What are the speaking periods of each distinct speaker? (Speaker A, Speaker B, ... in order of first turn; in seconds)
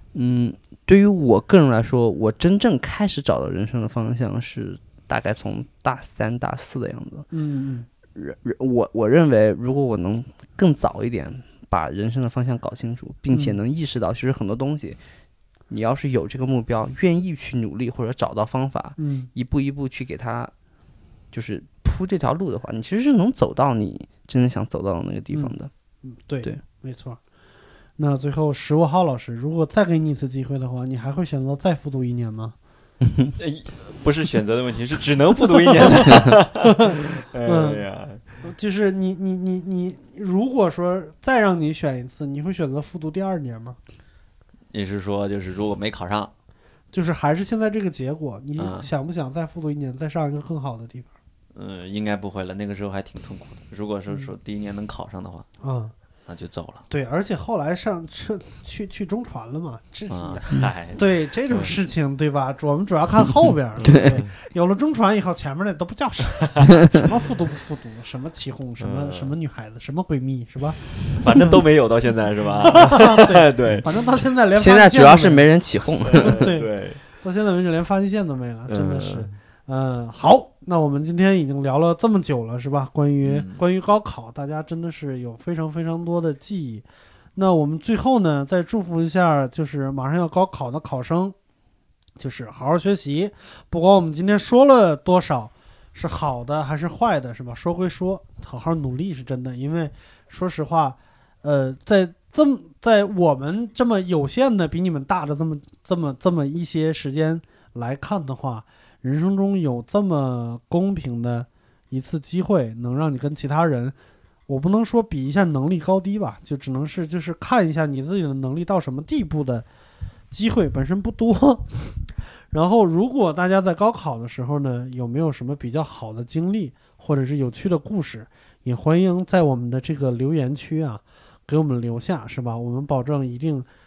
Speaker A: 0.1-7.3, 8.2-15.0, 15.7-20.5, 21.3-25.7, 33.0-33.4, 63.9-64.2, 74.5-76.5
Speaker B: 7.3-7.9, 13.3-13.6, 19.0-19.3, 25.3-27.2, 28.0-32.5, 36.6-37.9, 38.4-43.8, 46.9-51.1, 55.6-55.9, 56.9-71.6, 72.6-75.5, 76.2-86.8, 87.4-91.3, 92.2-114.0, 114.5-119.7, 120.3-122.0, 122.5-133.7
Speaker C: 33.4-38.2, 44.7-46.3, 48.6-48.9, 51.5-55.5, 56.3-56.9, 60.1-61.7, 63.8-64.3, 66.4-66.7, 68.8-69.3, 71.1-73.9, 76.0-77.0, 78.7-79.4, 83.2-83.6